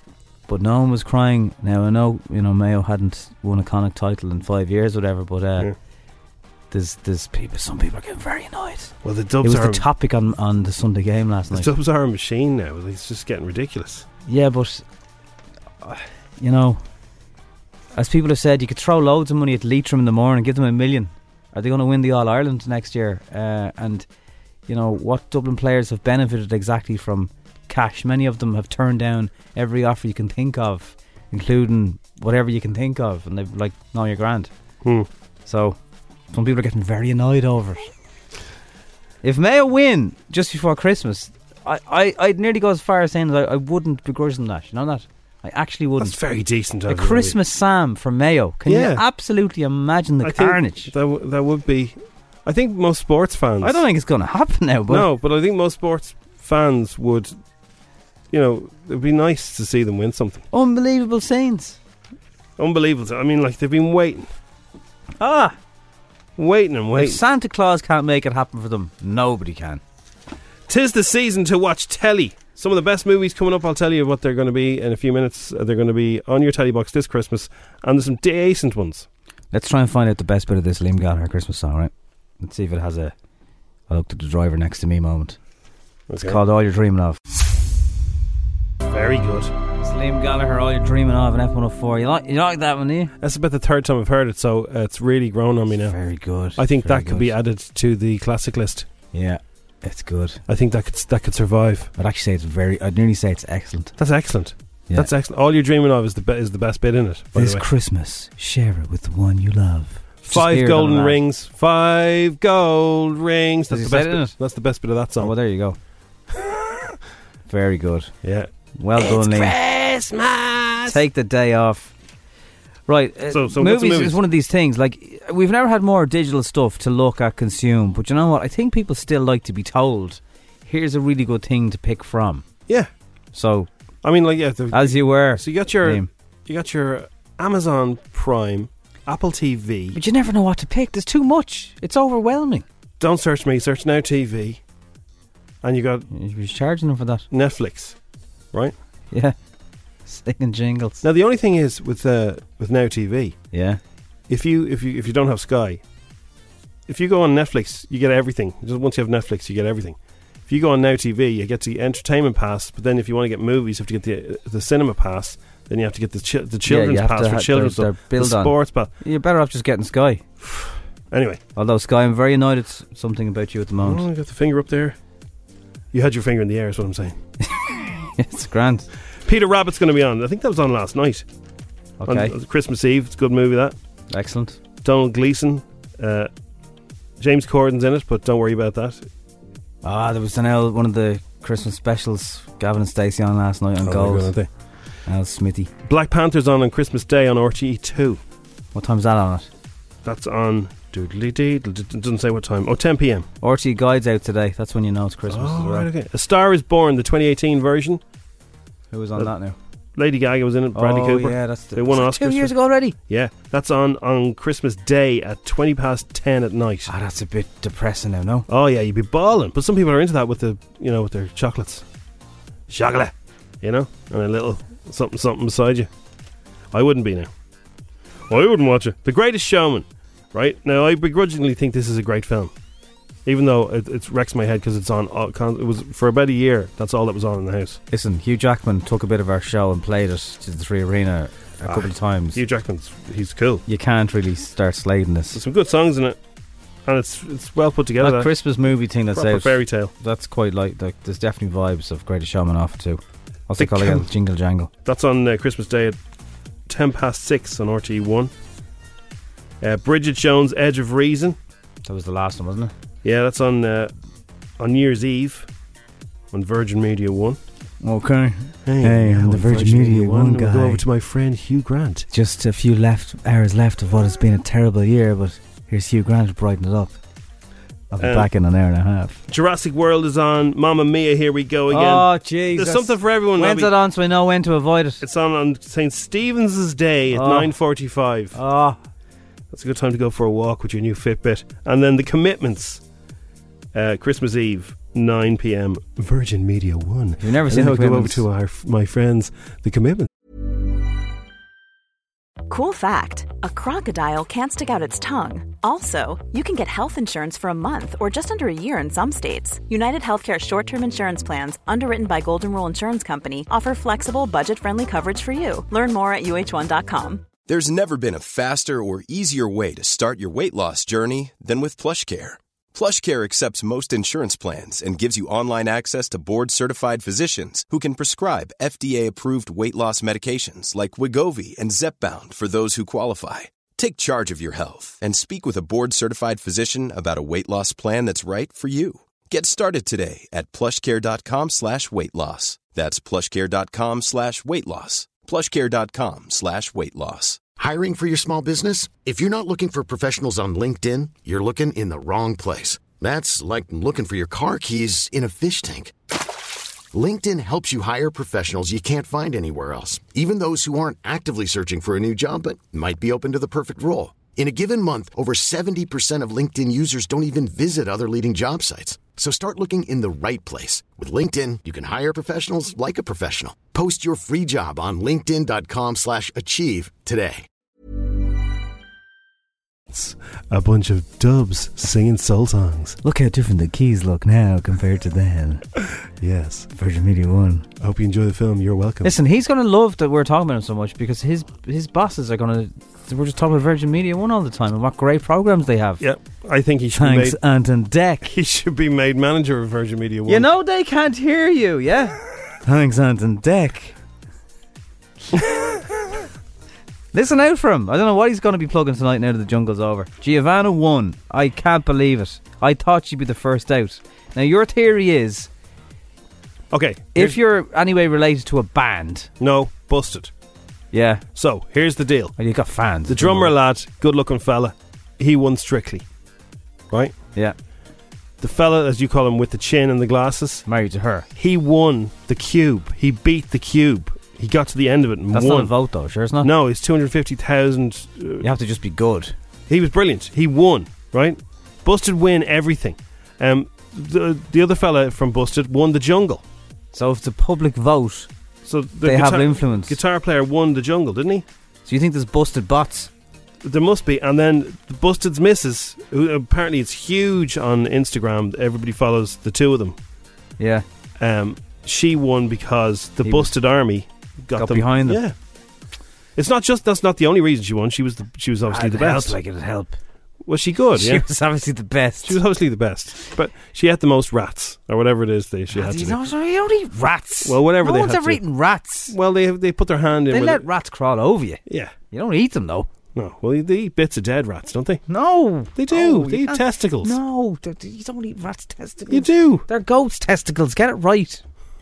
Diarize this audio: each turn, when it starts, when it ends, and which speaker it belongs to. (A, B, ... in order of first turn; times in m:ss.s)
0:00.5-0:05.7 A
0:06.7-0:11.7 A
0:09.0-0:09.8 B
0:11.5-0:14.0 B
0:14.2-0:14.8 A
0:15.8-0:16.8 A
0:17.9-0:24.0 A
0:24.7-0:34.5 A
0:35.4-0:35.8 A
0:36.3-0:37.8 A
0:39.2-0:46.2 A
0:46.0-0:47.4 B
0:46.9-0:50.9 A
0:48.7-0:49.0 B
0:50.2-0:53.8 B
0:53.6-0:55.1 A
0:54.9-0:57.3 B
0:58.3-1:00.4 B
1:00.5-1:01.8 A
1:02.6-1:04.3 B
1:05.2-1:05.6 A
1:06.4-1:07.2 B
1:07.0-1:09.8 A
1:10.7-1:19.1 B
1:19.5-1:23.1 A
1:23.9-1:25.4 A
1:26.1-1:26.4 B
1:26.2-1:27.2 A
1:28.9-1:29.5 B
1:29.8-1:33.1 A
1:33.2-1:36.0 B
1:35.8-1:37.3 A
1:36.6-1:38.9 B
1:39.1-1:40.4 A
1:40.5-1:41.9 B
1:42.0-1:43.9 A
1:44.0-1:47.6 B
1:47.3-1:51.2 A
1:50.2-1:55.3 B
1:53.7-1:54.4 A
1:55.2-1:55.8 A
1:57.5-1:58.1 A
1:58.2-2:01.0 B
1:58.7-1:59.6 A
2:00.9-2:01.9 A
2:02.9-2:12.5 A
2:03.3-2:04.2 B
2:13.3-2:13.7 A
2:14.0-2:20.0 B
2:14.7-2:16.1 A
2:19.9-2:22.6 A
2:23.0-2:24.6 B
2:25.6-2:26.1 B
2:26.1-2:27.2 A
2:27.3-2:28.0 B
2:30.0-2:31.0 A
2:31.0-2:33.4 B
2:33.5-2:33.8 A
2:34.3-2:35.8 B
2:36.9-2:48.9 B
2:46.6-2:50.2 A
2:50.4-2:51.4 B
2:51.6-2:54.0 A
2:53.8-2:55.0 B
2:55.9-2:57.2 B
2:57.4-2:58.9 A
2:59.2-3:01.2 B
3:02.0-3:02.3 A
3:02.0-3:03.7 B
3:04.1-3:04.6 A
3:04.8-3:06.3 B
3:07.2-3:09.0 B
3:09.8-3:14.3 A
3:13.8-3:14.5 B
3:15.0-3:15.7 A
3:15.8-3:18.2 B
3:18.7-3:19.5 A
3:20.0-3:23.2 B
3:23.4-3:25.9 A
3:25.3-3:28.0 B
3:28.9-3:29.6 A
3:30.0-3:36.9 B
3:30.7-3:33.0 A
3:36.9-3:38.5 A
3:38.5-3:41.8 B
3:42.7-3:45.9 B
3:46.7-3:47.3 B
3:48.3-3:52.5 B
3:53.2-3:57.8 B
3:57.9-4:02.4 A
4:01.6-4:03.6 B
4:03.7-4:05.4 A
4:05.3-4:06.2 B
4:06.8-4:08.3 B
4:08.0-4:14.7 A
4:09.1-4:09.9 B
4:13.6-4:14.1 B
4:14.8-4:16.0 B
4:16.7-4:18.3 B
4:19.6-4:21.4 B
4:21.8-4:22.7 A
4:23.0-4:23.9 B
4:24.6-4:25.5 B
4:26.3-4:27.4 B
4:27.8-4:30.8 A
4:28.6-4:32.1 B
4:32.1-4:37.0 A
4:37.9-4:39.2 A
4:38.0-4:38.3 B
4:39.3-4:43.7 B
4:41.7-4:45.0 A
4:45.0-4:48.4 B
4:47.1-4:47.5 A
4:48.3-4:48.8 A
4:49.5-4:52.8 B
4:53.7-5:00.1 B
4:57.2-4:58.2 A
5:02.5-5:17.4 C
5:17.4-5:47.4 D
5:47.6-5:55.9 E
5:56.9-6:17.4 E
6:19.9-6:23.0 B
6:23.0-6:25.6 A
6:26.2-6:26.7 B
6:26.7-6:27.7 A
6:27.8-6:29.1 B
6:29.0-6:36.0 A
6:36.0-6:37.4 B
6:36.9-6:38.3 A
6:38.2-6:40.5 B
6:40.3-6:44.0 A
6:47.1-6:55.5 A
6:56.7-6:57.4 B
6:57.1-6:59.3 A
6:59.4-7:00.3 B
7:00.9-7:01.2 A
7:01.3-7:02.4 B
7:02.4-7:03.5 A
7:03.1-7:06.0 B
7:08.4-7:10.6 B
7:10.6-7:11.3 A
7:11.4-7:15.7 B
7:15.3-7:16.5 A
7:16.4-7:18.5 B
7:18.4-7:19.3 A
7:19.7-7:26.4 B
7:26.9-7:28.3 A
7:28.6-7:31.4 B
7:29.0-7:30.0 A
7:31.8-7:33.1 A
7:33.6-7:40.0 B
7:40.6-7:40.8 A
7:41.2-7:45.3 B
7:43.2-7:43.5 A
7:44.5-7:45.2 A
7:46.4-7:49.4 B
7:48.7-7:50.0 A
7:50.4-7:51.2 B
7:50.9-7:52.4 A
7:52.2-7:56.2 B
7:55.7-7:59.1 A
7:57.4-7:58.4 B
7:59.1-8:00.7 B
8:00.3-8:02.9 A
8:03.1-8:05.0 B
8:05.1-8:11.4 A
8:05.7-8:07.1 B
8:09.1-8:09.6 B